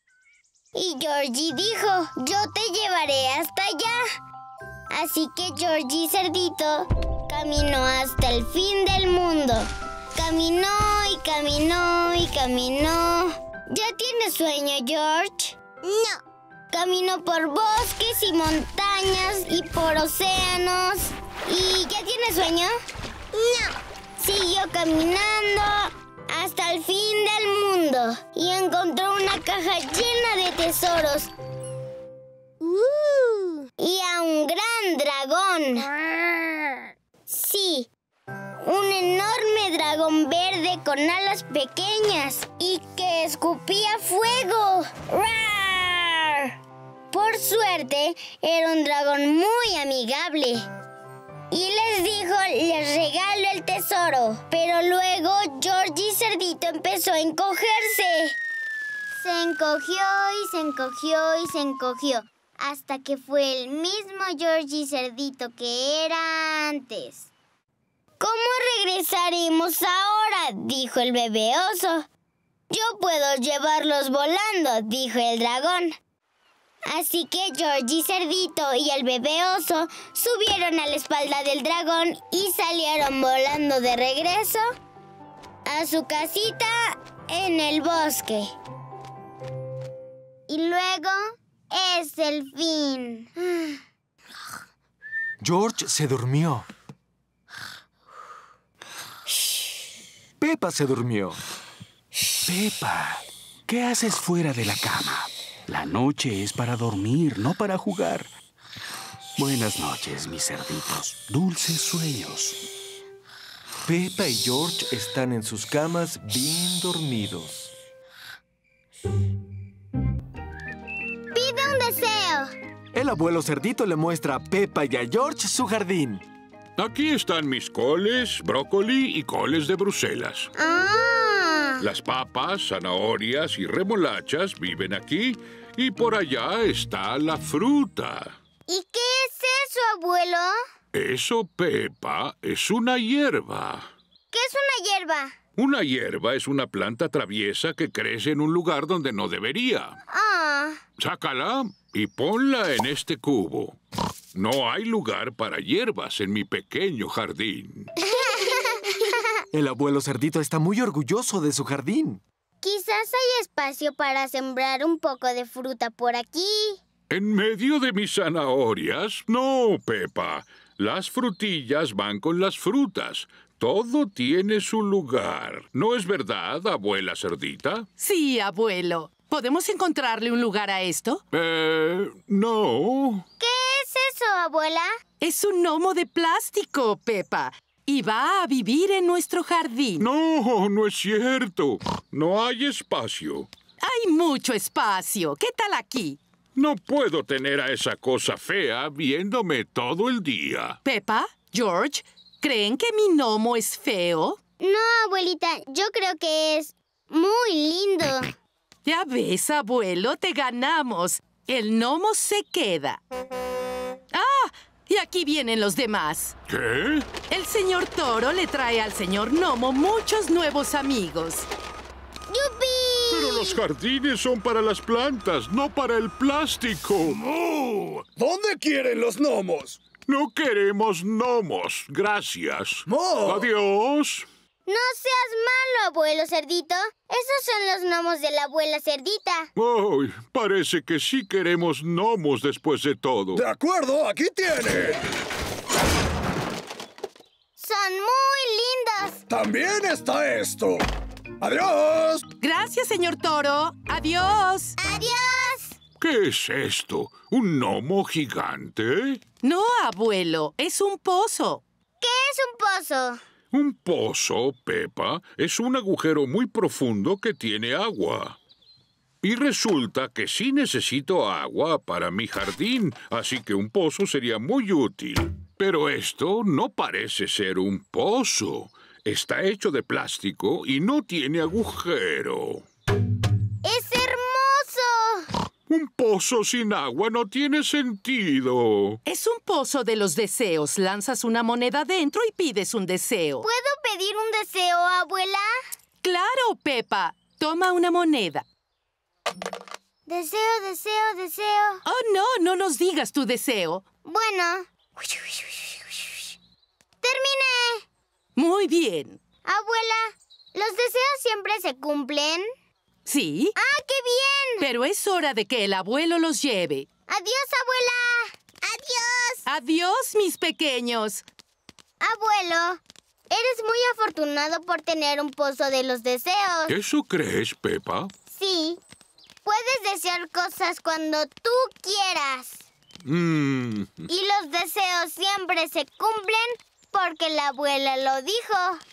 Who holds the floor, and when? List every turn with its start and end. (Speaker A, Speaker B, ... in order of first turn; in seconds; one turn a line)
Speaker A: 0.7-4.0
Speaker A: 4.9-16.2
Speaker A: 16.7-22.7
Speaker A: 23.3-31.3
Speaker A: 32.6-35.9
Speaker A: 37.3-37.9
Speaker A: 38.6-46.5
Speaker A: 47.1-50.6
Speaker A: 51.5-58.4
Speaker A: 59.1-67.3
Speaker A: 68.2-72.1
Speaker A: 72.7-76.0
Speaker A: 76.9-84.7
Speaker A: 85.7-88.5
Speaker A: 90.5-93.7
Speaker B: 95.4-96.7
Speaker B: 100.4-101.4
Speaker C: 102.4-108.3
Speaker C: 109.3-112.6
Speaker B: 113.8-117.7
Speaker A: 121.3-122.5
Speaker B: 122.9-126.2
Speaker D: 126.8-130.5
Speaker A: 130.6-131.8
Speaker D: 131.8-138.4
Speaker A: 138.7-140.5
Speaker D: 140.9-143.9
Speaker A: 144.3-145.3
Speaker D: 145.6-150.0
Speaker A: 150.1-150.8
Speaker D: 151.0-153.8
Speaker D: 154.3-157.9
Speaker A: 158.1-159.2
Speaker B: 159.5-162.2
Speaker A: 162.6-166.8
Speaker D: 167.1-177.9
Speaker E: 178.0-181.2
Speaker D: 181.3-183.2
Speaker A: 183.4-184.9
Speaker E: 185.2-190.0
Speaker D: 190.0-193.5
Speaker E: 193.8-196.2
Speaker D: 196.6-200.8
Speaker E: 200.8-204.4
Speaker A: 204.6-208.3
Speaker E: 208.8-213.0
Speaker E: 214.1-216.3
Speaker D: 216.5-217.1
Speaker E: 217.3-221.5
Speaker A: 222.3-223.6
Speaker D: 223.1-227.2
Speaker F: 227.3-229.9
Speaker D: 230.0-234.3
Speaker F: 232.8-233.5
Speaker A: 234.7-239.5
Speaker D: 239.6-243.4
Speaker F: 243.3-245.0
Speaker A: 247.6-249.2
Speaker F: 249.3-250.9
Speaker F: 251.4-252.3
Speaker E: 252.4-254.7
Speaker A: 254.8-255.8
Speaker D: 256.0-259.2
Speaker E: 259.4-261.6
Speaker A: 262.0-263.2
Speaker D: 263.5-268.4
Speaker D: 269.2-282.6
Speaker A: 283.6-285.3
Speaker D: 285.7-289.0
Speaker E: 289.1-293.4
Speaker A: 293.4-295.5
Speaker E: 296.0-298.4
Speaker A: 300.1-301.8
Speaker E: 301.9-303.8
Speaker A: 304.0-306.1
Speaker A: 307.0-307.8
Speaker E: 308.4-309.2
Speaker A: 309.4-312.5
Speaker E: 313.0-313.5
Speaker A: 313.6-314.6
Speaker E: 314.6-316.9
Speaker A: 317.1-319.4
Speaker E: 319.4-321.2
Speaker A: 322.0-326.7
Speaker D: 326.7-328.1
Speaker A: 328.3-328.8
Speaker A: 329.4-332.6
Speaker D: 333.0-334.0
Speaker A: 334.1-338.8